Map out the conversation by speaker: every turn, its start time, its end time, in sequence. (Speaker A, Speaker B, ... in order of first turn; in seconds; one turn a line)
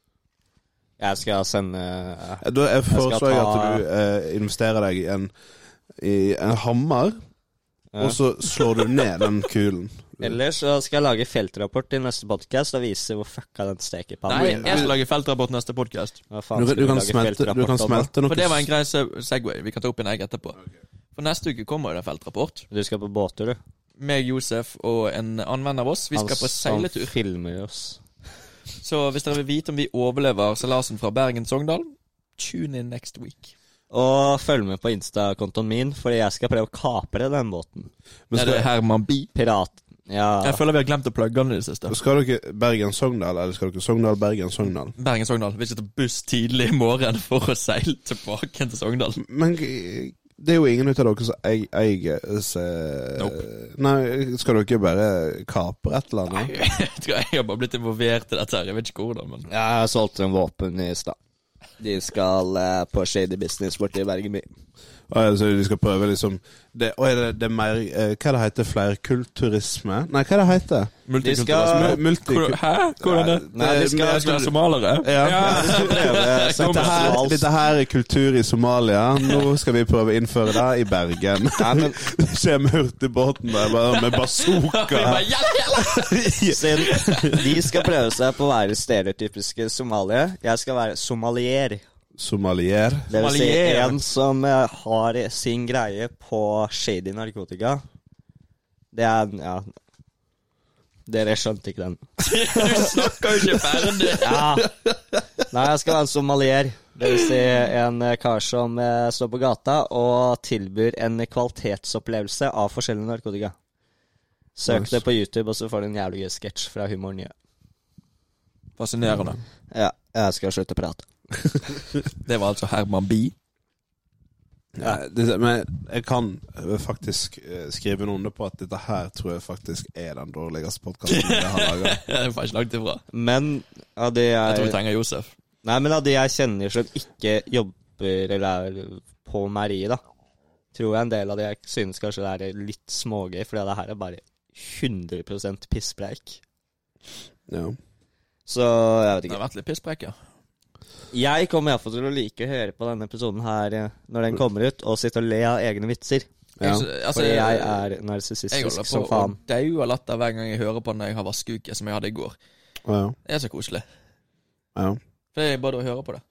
Speaker A: 1.0-3.8
Speaker B: 2.4-5.3
Speaker B: 6.0-7.2
Speaker A: 7.9-8.2
Speaker B: 8.0-10.4
Speaker A: 10.2-14.8
Speaker C: 14.3-16.2
Speaker B: 14.6-14.9
Speaker A: 16.3-18.1
Speaker B: 16.5-18.7
Speaker C: 18.3-20.6
Speaker C: 21.1-22.6
Speaker A: 22.7-23.6
Speaker C: 24.0-27.1
Speaker A: 26.1-28.0
Speaker C: 28.8-33.5
Speaker A: 33.9-37.9
Speaker B: 38.3-38.7
Speaker C: 38.3-39.3
Speaker A: 39.3-40.6
Speaker C: 40.4-42.0
Speaker B: 41.9-44.9
Speaker C: 45.0-49.2
Speaker B: 49.2-56.5
Speaker C: 53.2-53.4
Speaker C: 56.3-59.5
Speaker A: 59.5-61.2
Speaker A: 61.8-64.5
Speaker B: 65.1-70.9
Speaker C: 71.0-77.3
Speaker A: 71.2-72.0
Speaker B: 71.5-85.2
Speaker A: 73.5-74.5
Speaker A: 75.2-77.4
Speaker A: 81.6-82.0
Speaker C: 84.0-87.8
Speaker B: 85.8-87.4
Speaker A: 86.5-91.8
Speaker B: 92.2-93.1
Speaker A: 93.1-97.8
Speaker C: 93.1-94.0
Speaker A: 98.9-99.7
Speaker A: 101.1-102.9
Speaker C: 102.2-104.5
Speaker A: 104.1-104.7
Speaker A: 105.5-113.5
Speaker A: 114.5-117.3
Speaker B: 114.7-115.0
Speaker C: 118.8-119.4
Speaker A: 119.7-121.1
Speaker C: 122.2-123.3
Speaker B: 124.7-132.0
Speaker C: 131.1-133.0
Speaker A: 133.1-134.8
Speaker C: 134.4-135.3
Speaker A: 135.6-140.0
Speaker A: 140.7-146.4
Speaker B: 147.5-147.8
Speaker A: 148.5-149.4
Speaker C: 149.3-150.1
Speaker A: 151.1-156.2
Speaker B: 156.6-156.9
Speaker C: 156.6-157.8
Speaker A: 157.1-159.4
Speaker C: 158.5-162.3
Speaker B: 162.8-163.2
Speaker C: 163.2-163.8
Speaker C: 165.3-166.2